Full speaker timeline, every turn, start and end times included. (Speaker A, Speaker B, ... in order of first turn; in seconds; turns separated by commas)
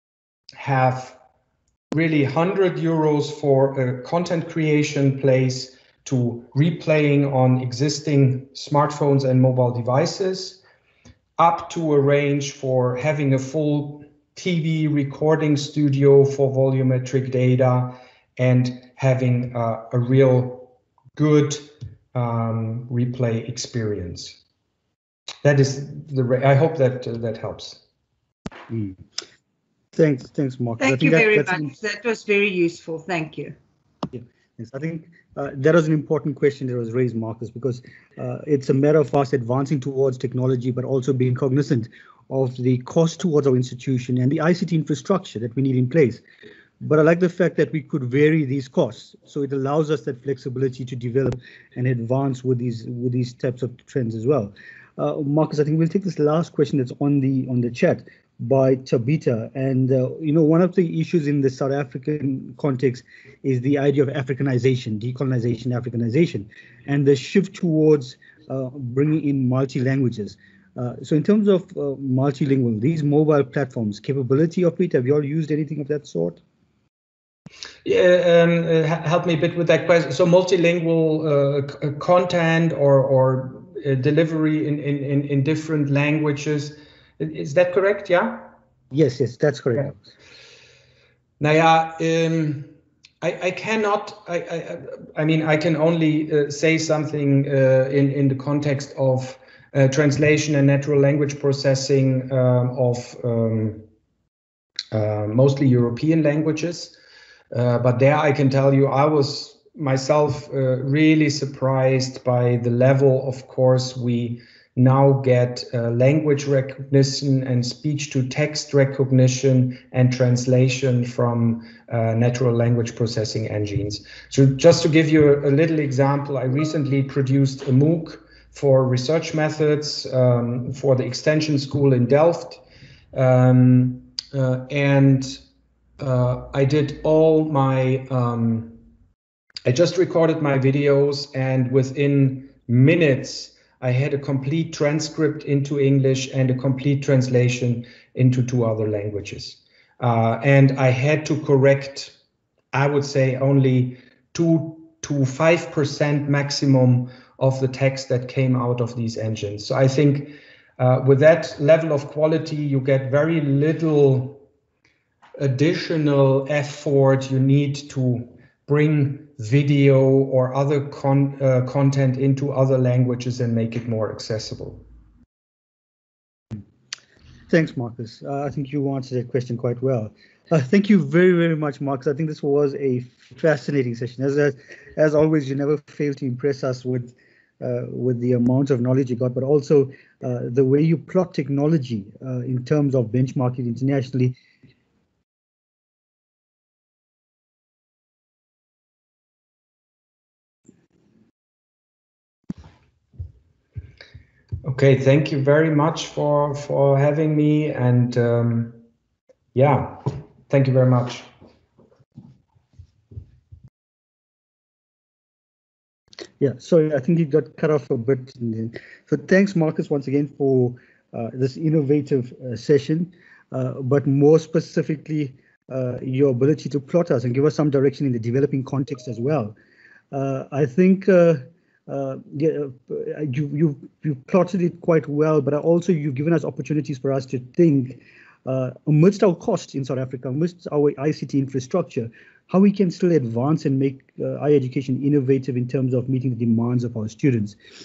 Speaker A: 0.5-1.2, Speaker A: 1.9-10.6, Speaker A: 11.4-24.4, Speaker A: 25.4-27.8, Speaker B: 28.7-29.0, Speaker B: 29.9-31.7, Speaker C: 30.8-33.6, Speaker B: 34.1-46.2, Speaker B: 46.8-76.4, Speaker A: 77.8-88.5, Speaker B: 88.9-90.1, Speaker A: 91.4-103.8, Speaker A: 104.9-107.0, Speaker A: 107.5-132.6, Speaker A: 133.1-135.4, Speaker A: 136.0-138.8, Speaker A: 139.6-152.1, Speaker A: 152.7-164.4, Speaker A: 165.4-174.8, Speaker B: 177.5-194.4, Speaker A: 204.6-208.8, Speaker A: 209.5-211.3, Speaker B: 216.4-229.5, Speaker B: 230.1-247.6